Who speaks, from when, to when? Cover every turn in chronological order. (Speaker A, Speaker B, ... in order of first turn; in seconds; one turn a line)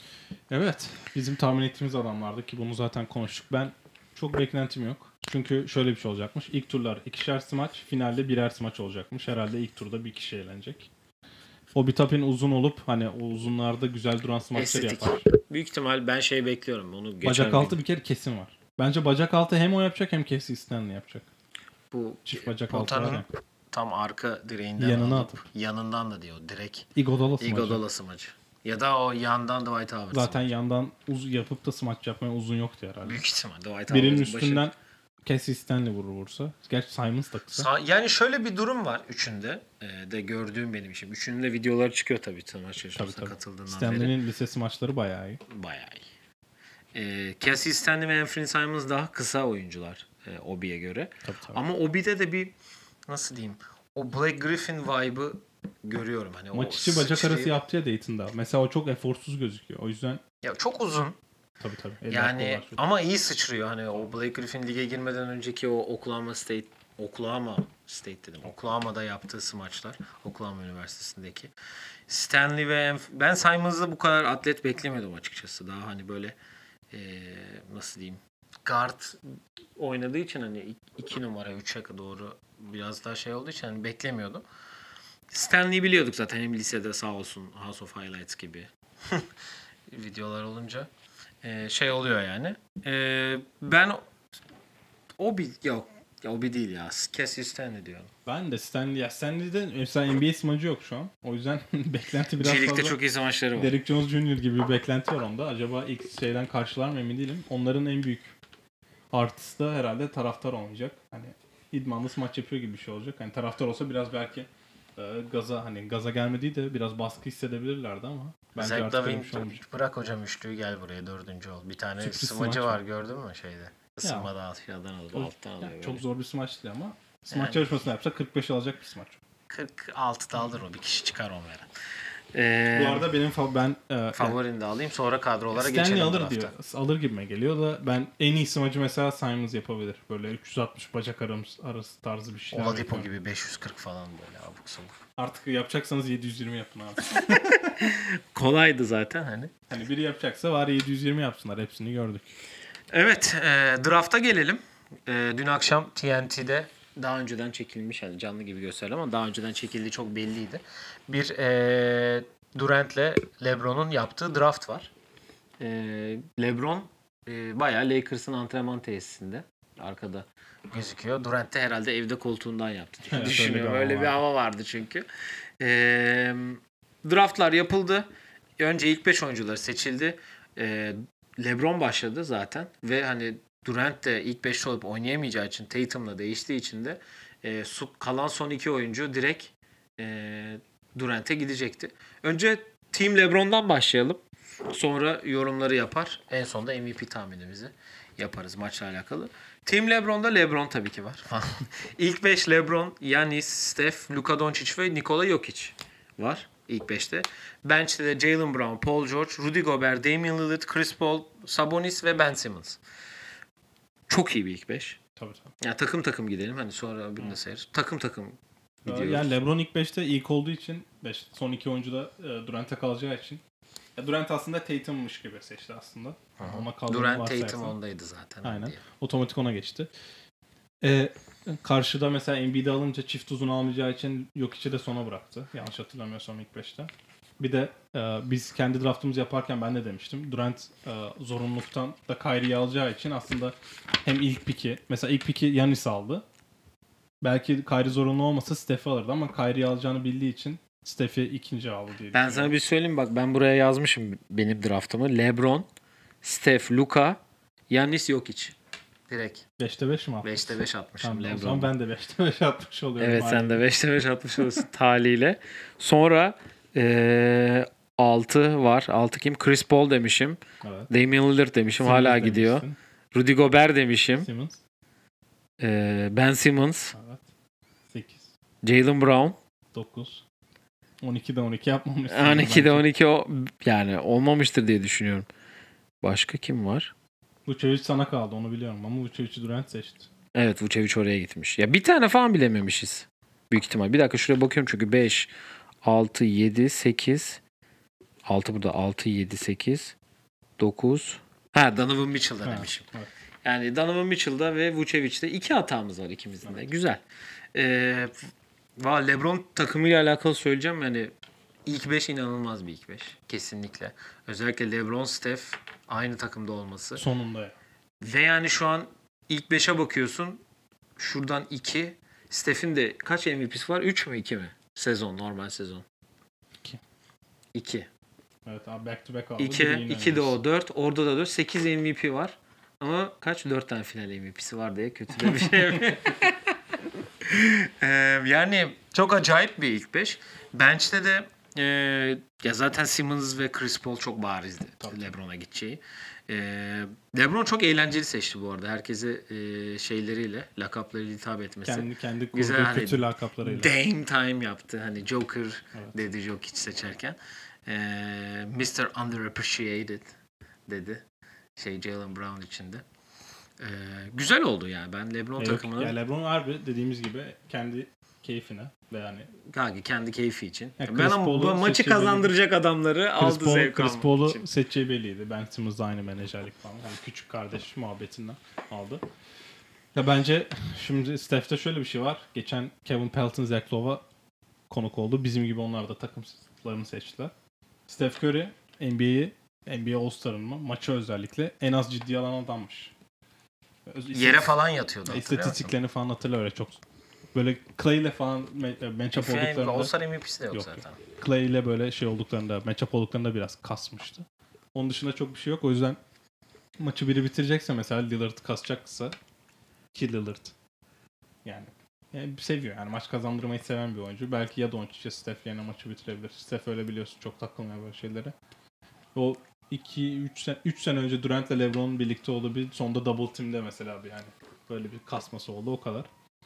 Speaker A: 0.5-10.9
Speaker A: 11.7-15.2
Speaker B: 14.5-17.8
Speaker A: 17.2-21.3
Speaker B: 21.9-26.9
Speaker A: 22.2-23.3
Speaker A: 24.8-25.4
Speaker A: 26.9-27.8
Speaker B: 27.4-30.4
Speaker A: 30.1-33.2
Speaker B: 33.0-34.7
Speaker A: 33.9-37.7
Speaker B: 37.5-44.2
Speaker A: 42.9-45.4
Speaker B: 45.5-46.0
Speaker B: 46.9-52.5
Speaker A: 51.2-51.6
Speaker B: 53.1-57.5
Speaker A: 56.5-60.2
Speaker B: 60.4-61.1
Speaker A: 61.6-62.8
Speaker B: 62.1-71.5
Speaker B: 72.1-76.3
Speaker B: 76.9-79.2
Speaker B: 79.8-84.4
Speaker B: 85.3-89.3
Speaker B: 89.9-90.9
Speaker B: 91.4-94.0
Speaker B: 95.2-98.1
Speaker A: 98.2-103.0
Speaker B: 102.4-103.7
Speaker A: 103.5-108.3
Speaker A: 109.1-119.6
Speaker B: 118.5-126.0
Speaker A: 122.0-122.8
Speaker A: 124.0-124.3
Speaker A: 125.1-129.2
Speaker B: 127.3-127.7
Speaker B: 129.5-131.7
Speaker B: 132.3-133.1
Speaker A: 132.7-134.4
Speaker B: 134.1-136.5
Speaker A: 135.5-143.1
Speaker B: 142.5-144.9
Speaker A: 145.2-147.7
Speaker B: 147.1-149.5
Speaker A: 149.7-152.3
Speaker B: 152.9-164.9
Speaker B: 165.6-175.0
Speaker A: 173.1-174.2
Speaker B: 175.6-178.1
Speaker B: 178.6-212.8
Speaker B: 214.1-215.0
Speaker A: 215.2-215.5
Speaker B: 215.6-219.3
Speaker A: 218.8-223.4
Speaker A: 223.9-227.8
Speaker B: 226.4-228.8
Speaker A: 228.4-229.9
Speaker A: 230.8-246.2
Speaker A: 247.2-252.5
Speaker B: 252.1-255.7
Speaker B: 256.2-258.6
Speaker B: 259.1-259.4
Speaker A: 259.6-263.6
Speaker B: 260.2-261.7
Speaker B: 263.0-274.3
Speaker A: 270.6-270.9
Speaker A: 271.7-272.8
Speaker A: 274.2-274.6
Speaker B: 275.6-276.9
Speaker A: 276.9-277.2
Speaker A: 277.9-278.3
Speaker B: 278.6-279.4
Speaker A: 279.7-280.2
Speaker A: 281.0-282.9
Speaker B: 282.1-285.3
Speaker B: 286.0-286.9
Speaker A: 287.4-290.1
Speaker B: 290.3-295.3
Speaker B: 295.8-297.4
Speaker B: 298.2-299.9
Speaker B: 300.6-302.9
Speaker A: 302.4-303.1
Speaker B: 303.4-307.0
Speaker A: 306.4-306.7
Speaker B: 307.5-311.1
Speaker B: 311.6-317.1
Speaker A: 316.9-317.5
Speaker B: 318.0-320.4
Speaker B: 321.0-325.8
Speaker B: 327.5-327.9
Speaker A: 328.4-330.4
Speaker B: 329.4-336.6
Speaker A: 335.2-335.8
Speaker B: 337.2-360.1
Speaker A: 344.8-345.1
Speaker A: 351.6-353.7
Speaker B: 360.7-361.0
Speaker B: 361.6-362.8
Speaker B: 363.6-365.9
Speaker A: 365.4-369.3
Speaker B: 369.5-374.4
Speaker A: 370.8-372.3
Speaker A: 373.2-379.0
Speaker A: 379.9-384.0
Speaker A: 384.7-387.3
Speaker A: 387.9-392.9
Speaker A: 393.9-396.8
Speaker B: 394.1-395.7
Speaker A: 397.3-399.9
Speaker B: 399.1-401.0
Speaker A: 400.5-406.0
Speaker A: 406.8-409.1
Speaker A: 409.9-410.5
Speaker A: 411.4-418.3
Speaker A: 419.1-426.1